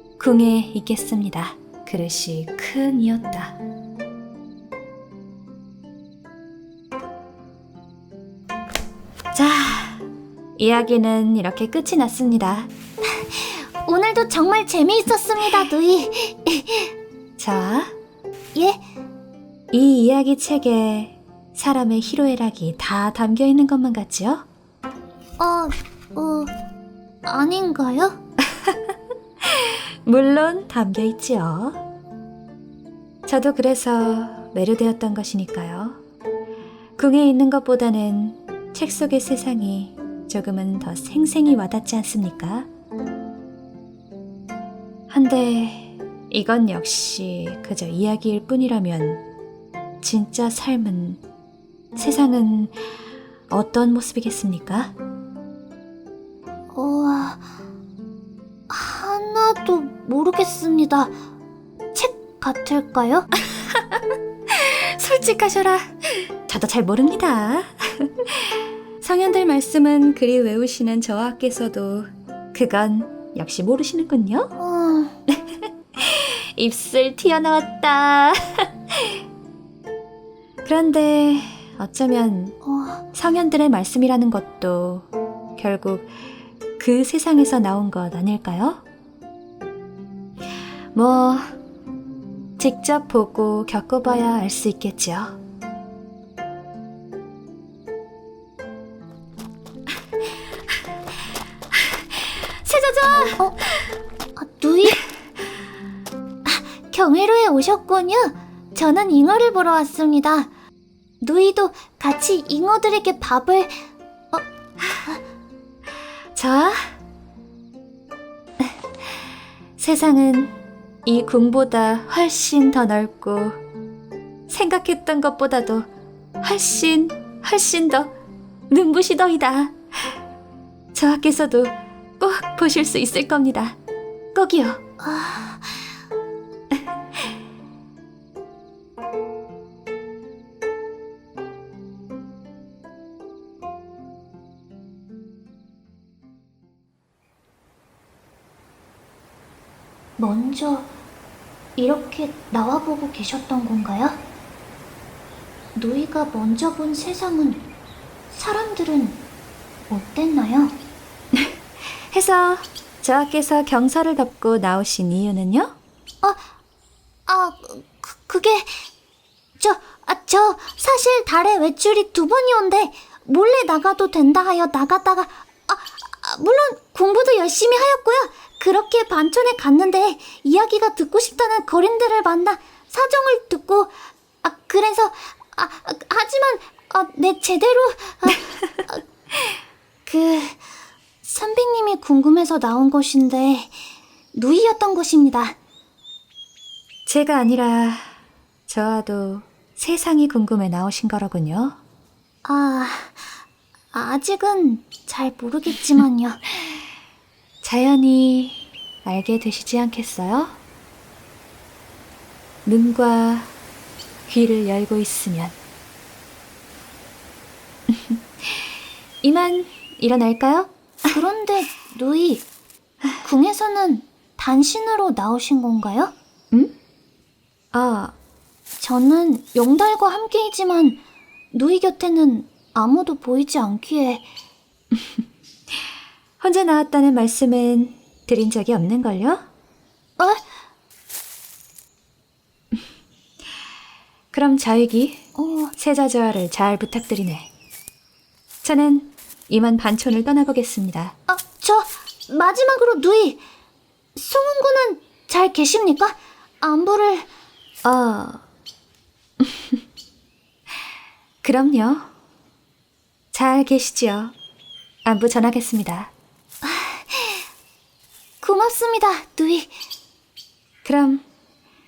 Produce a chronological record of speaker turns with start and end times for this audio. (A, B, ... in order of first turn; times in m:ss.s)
0:00.2-0:03.6 A
0:09.3-0:10.1 A
0:10.6-0:12.7 A
0:13.0-0:16.9 B
0:17.4-0:17.9 A
0:18.5-0:18.8 B
0:19.7-0:24.5 A
0:25.4-0:26.5 B
0:27.2-0:28.2 B
0:28.5-0:28.9 A
0:29.4-0:31.8 A
0:33.3-0:36.0 A
0:37.0-0:42.7 A
0:45.1-0:49.2 A
0:50.0-0:51.2 A
0:52.0-0:52.8 A
0:53.5-0:55.0 A
0:56.7-0:57.4 B
0:58.7-1:01.1 B
1:01.9-1:03.3 B
1:04.5-1:14.5 A
1:14.6-1:15.2 B
1:15.3-1:19.2 A
1:20.6-1:22.6 A
1:22.6-1:23.0 B
1:23.1-1:26.1 A
1:26.8-1:28.8 A
1:30.9-1:31.6 A
1:32.6-1:35.4 A
1:42.1-1:43.4 A
1:44.4-1:45.0 B
1:46.4-1:50.5 B
1:51.2-1:53.7 B
1:56.4-1:57.0 A
1:59.8-2:03.6 A
2:04.5-2:05.9 A
2:06.4-2:08.1 A
2:08.7-2:10.2 A
2:10.9-2:13.8 A
2:14.3-2:14.8 A
2:15.0-2:15.8 B
2:30.2-2:30.9 B
2:31.8-2:34.2 B
2:35.8-2:37.7 B
2:38.3-2:39.2 B
2:39.9-2:40.8 B
2:42.1-2:45.8 A
2:47.3-2:48.8 B
2:49.6-3:09.0 B
3:08.5-3:08.8 A
3:10.1-3:10.6 B
3:11.2-3:13.7 B
3:14.3-3:15.6 B
3:17.1-3:18.2 A
3:18.7-3:21.8 A
3:22.4-3:23.3 B
3:23.9-3:26.4 B
3:27.6-3:30.6 A
3:32.6-3:33.5 A
3:34.3-3:35.6 A
3:37.9-3:38.7 A
3:39.2-3:40.7 A
3:41.1-3:42.4 B
3:43.2-3:46.1 B
3:47.7-3:48.2 A
3:48.8-3:51.0 B
3:51.5-3:54.2 B
3:56.4-3:59.4 A
4:00.2-4:00.4 B
4:04.3-4:05.3 A
4:05.4-4:05.7 B
4:05.8-4:07.5 A
4:08.6-4:11.2 A
4:11.3-4:13.4 B
4:14.2-4:17.3 B
4:17.8-4:18.4 A
4:19.4-4:19.8 A
4:21.4-4:22.1 A
4:23.3-4:24.3 A
4:25.0-4:26.1 A
4:26.6-4:27.4 B
4:28.4-4:29.7 B
4:30.8-4:31.2 A